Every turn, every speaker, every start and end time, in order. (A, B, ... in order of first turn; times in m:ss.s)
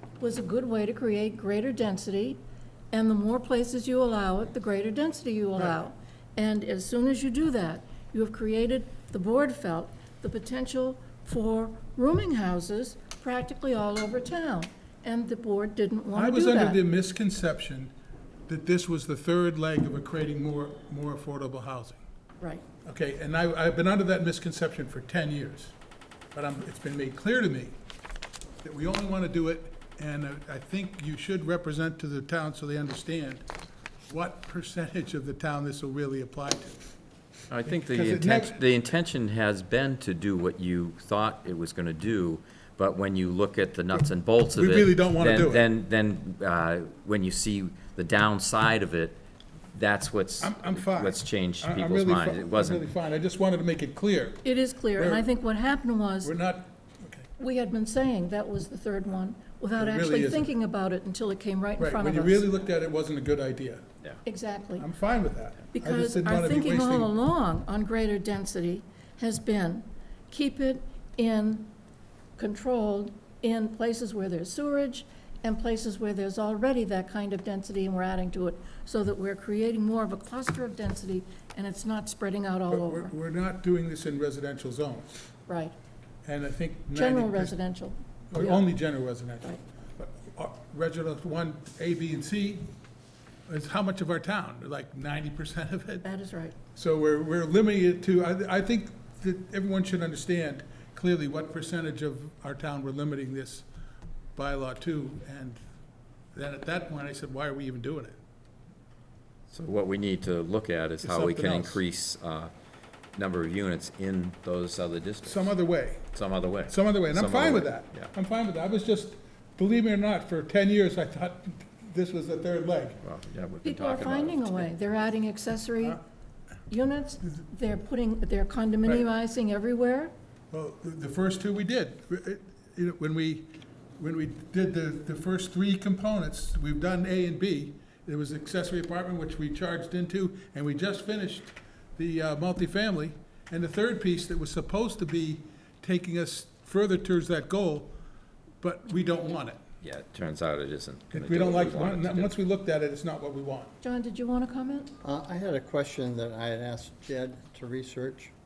0:00.2-0:16.8 A
0:16.1-0:17.9 B
0:18.5-0:22.0 B
0:22.8-0:25.7 B
0:26.3-0:27.7 B
0:28.6-0:33.4 B
0:34.1-0:36.9 B
0:37.5-0:49.2 C
0:37.6-0:38.7 B
0:44.5-0:45.7 B
0:49.7-0:52.9 C
0:50.4-0:55.3 B
0:54.4-0:56.3 A
0:56.2-0:57.3 B
0:57.4-1:02.5 A
0:59.8-1:00.5 B
1:01.8-1:03.8 B
1:04.2-1:04.9 A
1:04.8-1:07.1 B
1:05.7-1:11.7 A
1:12.4-1:23.1 A
1:22.7-1:25.2 B
1:25.5-1:25.7 A
1:26.2-1:27.6 B
1:26.9-1:28.7 A
1:28.3-1:32.7 B
1:33.5-1:36.0 B
1:36.0-1:36.6 A
1:36.7-1:43.6 B
1:44.4-1:45.6 B
1:46.3-1:48.2 B
1:49.5-1:52.5 C
1:51.0-1:51.8 B
1:53.1-1:55.6 C
1:55.2-1:56.1 B
1:56.1-1:58.1 C
1:56.6-2:03.0 B
2:03.0-2:04.7 C
2:03.6-2:06.0 A
2:06.7-2:10.1 A
2:10.5-2:27.9 B
2:28.6-2:29.6 B
2:29.8-2:32.4 C
2:31.1-2:33.7 B
2:33.8-2:34.9 A
2:35.0-2:38.3 D